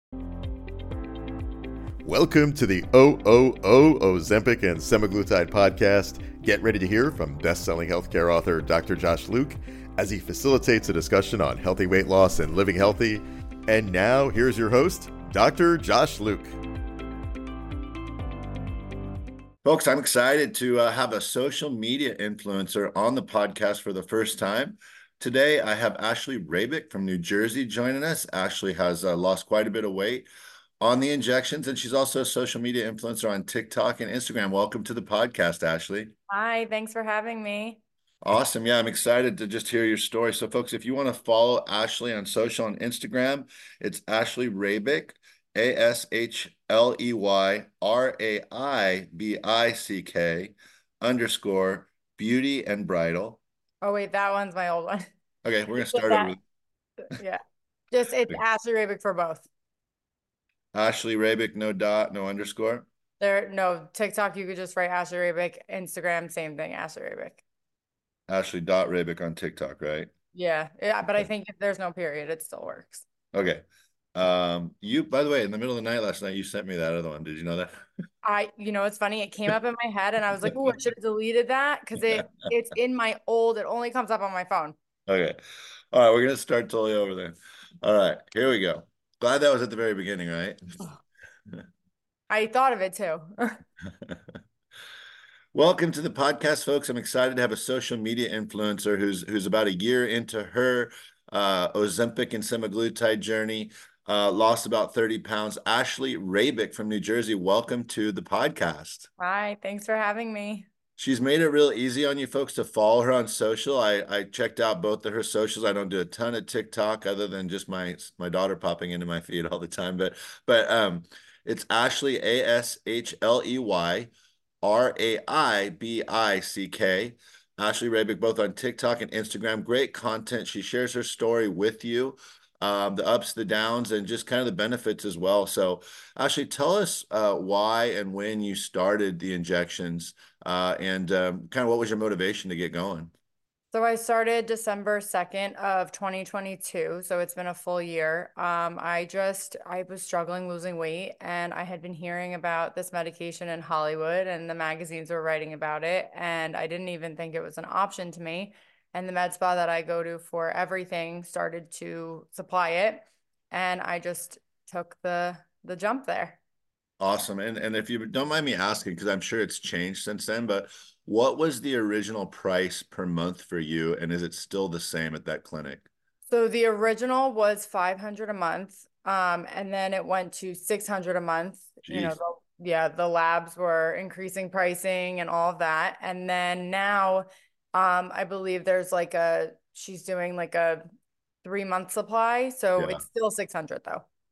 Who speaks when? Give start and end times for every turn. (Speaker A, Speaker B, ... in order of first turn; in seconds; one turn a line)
Speaker A: 2.0-16.5
Speaker B: 19.6-30.3
Speaker B: 30.8-36.1
Speaker C: 36.3-37.8
Speaker B: 38.2-53.4
Speaker C: 53.8-55.1
Speaker B: 55.4-56.4
Speaker C: 55.9-56.3
Speaker C: 57.1-59.5
Speaker B: 60.7-62.9
Speaker C: 63.2-67.4
Speaker B: 68.3-70.1
Speaker C: 70.3-73.0
Speaker B: 73.3-73.6
Speaker B: 74.2-77.7
Speaker C: 78.2-84.8
Speaker B: 82.0-82.3
Speaker B: 85.1-85.4
Speaker B: 85.9-90.6
Speaker C: 92.3-93.6
Speaker B: 95.5-109.1
Speaker C: 109.2-110.7
Speaker B: 111.0-124.1
Speaker B: 124.6-143.1
Speaker C: 143.7-166.4
Speaker B: 167.0-175.9
Speaker C: 176.2-190.8
Speaker B: 181.9-182.2
Speaker C: 191.4-194.0
Speaker B: 192.8-193.0